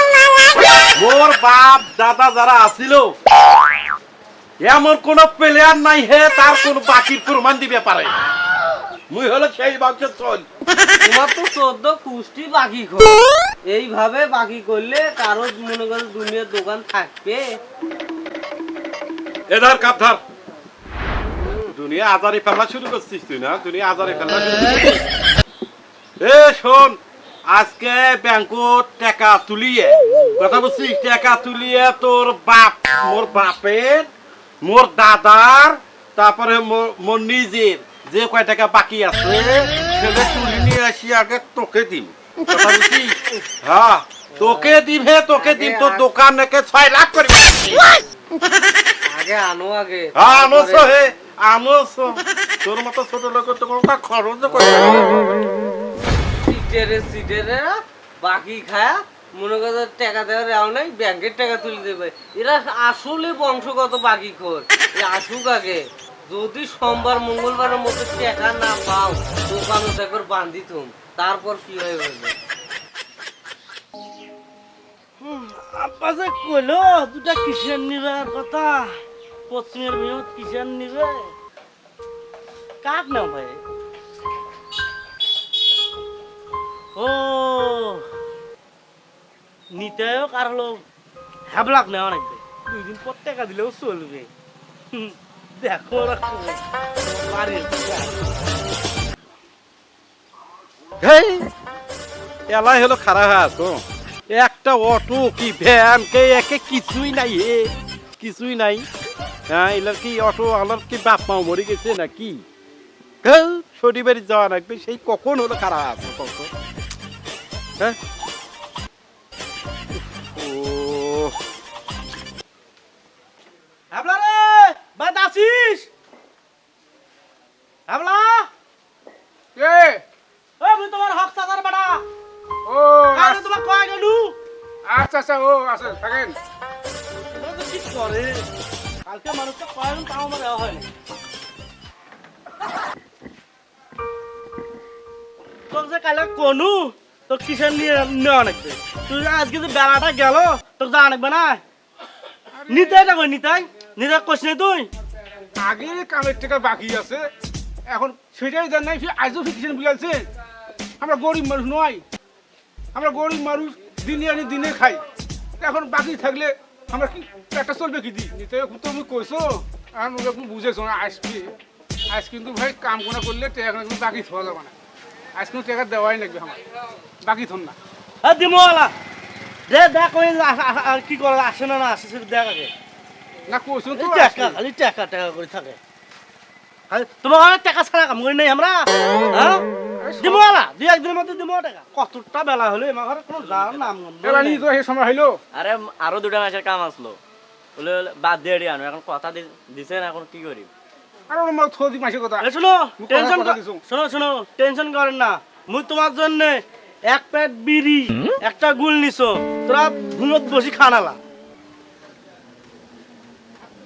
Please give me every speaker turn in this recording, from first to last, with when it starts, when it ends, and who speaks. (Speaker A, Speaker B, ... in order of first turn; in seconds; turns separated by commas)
Speaker A: 0.9-3.1, Speaker A: 4.6-8.1, Speaker A: 9.1-10.4, Speaker B: 11.0-17.6, Speaker A: 19.5-20.2, Speaker A: 21.7-25.0, Speaker A: 26.2-27.0, Speaker A: 27.5-34.1, Speaker A: 34.6-47.8, Speaker B: 44.4-44.8, Speaker B: 45.4-46.0, Speaker B: 49.1-50.9, Speaker A: 50.1-55.3, Speaker B: 54.5-54.9, Speaker B: 56.4-72.3, Speaker C: 75.2-78.9, Speaker C: 79.5-81.3, Speaker C: 82.8-83.6, Speaker C: 87.0-88.0, Speaker C: 89.7-90.8, Speaker C: 91.5-94.3, Speaker C: 94.9-98.2, Speaker A: 101.0-101.4, Speaker A: 102.5-108.8, Speaker A: 109.5-112.4, Speaker A: 113.2-116.5, Speaker A: 120.1-121.3, Speaker C: 123.9-125.9, Speaker C: 127.9-128.5, Speaker D: 129.6-130.0, Speaker C: 130.6-132.0, Speaker D: 132.7-133.4, Speaker C: 133.1-134.3, Speaker D: 134.9-136.3, Speaker C: 137.3-138.4, Speaker C: 139.0-140.9, Speaker C: 145.7-151.6, Speaker D: 152.7-153.1, Speaker C: 152.7-154.9, Speaker D: 155.6-157.2, Speaker D: 157.9-160.2, Speaker D: 161.0-162.0, Speaker D: 162.9-165.0, Speaker D: 165.6-171.5, Speaker D: 172.1-174.7, Speaker D: 175.4-176.7, Speaker D: 177.2-177.7, Speaker C: 178.2-178.9, Speaker C: 179.7-182.7, Speaker D: 183.5-184.6, Speaker C: 183.9-185.8, Speaker C: 186.9-189.6, Speaker D: 190.0-190.4, Speaker C: 190.2-194.6, Speaker D: 193.6-195.3, Speaker E: 195.5-197.2, Speaker E: 197.8-200.7, Speaker D: 201.3-202.4, Speaker C: 202.4-206.6, Speaker D: 203.0-203.8, Speaker C: 207.1-211.2